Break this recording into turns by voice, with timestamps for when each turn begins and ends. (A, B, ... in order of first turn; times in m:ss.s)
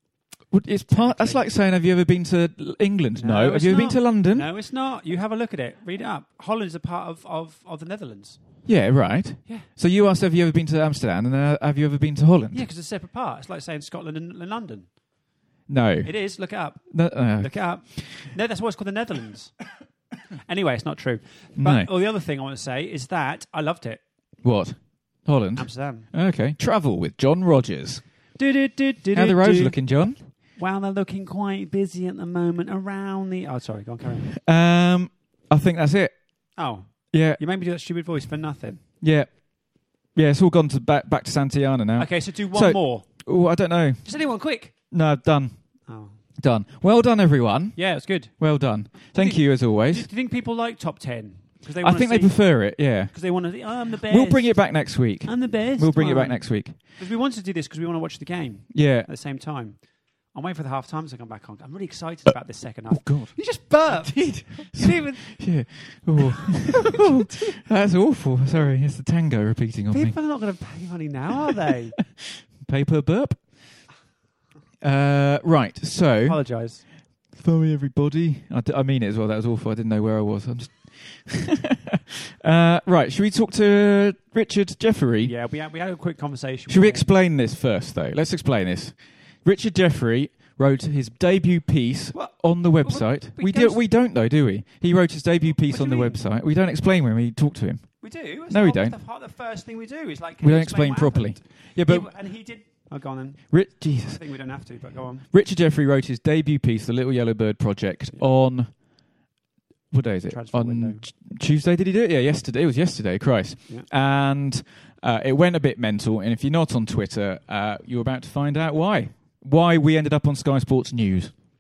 0:00.5-0:04.5 A
0:00.9-0:01.4 B
0:03.2-0:08.4 B
0:08.7-0:12.6 A
0:12.5-0:14.9 B
0:15.7-0:16.1 A
0:16.0-0:19.6 B
0:16.9-0:18.2 A
0:20.5-0:24.0 B
0:21.6-0:21.9 A
0:24.4-0:28.0 A
0:25.6-0:26.1 B
0:28.4-0:29.8 B
0:29.1-0:30.2 A
0:30.6-0:34.3 B
0:34.4-0:36.2 A
0:36.6-0:38.8 B
0:37.1-0:37.4 A
0:39.0-0:39.5 A
0:40.1-0:44.2 A
0:42.0-0:43.2 B
0:44.0-0:44.7 B
0:44.9-0:45.6 A
0:45.9-0:46.2 B
0:46.4-0:50.1 A
0:47.8-0:48.4 B
0:48.9-0:52.5 B
0:51.8-0:53.3 A
0:53.1-0:59.8 B
0:54.0-0:56.8 A
0:58.7-0:59.1 A
1:00.3-1:05.4 B
1:02.9-1:10.2 A
1:06.8-1:07.6 B
1:09.9-1:12.0 B
1:12.2-1:13.5 A
1:14.8-1:16.4 A
1:16.3-1:16.8 B
1:17.3-1:25.3 A
1:25.2-1:27.1 B
1:26.7-1:39.0 A
1:32.1-1:33.8 B
1:35.6-1:36.2 B
1:38.0-1:45.3 B
1:40.4-1:42.1 A
1:43.5-1:44.2 A
1:45.3-1:48.7 A
1:49.9-2:01.3 A
1:50.3-1:51.0 B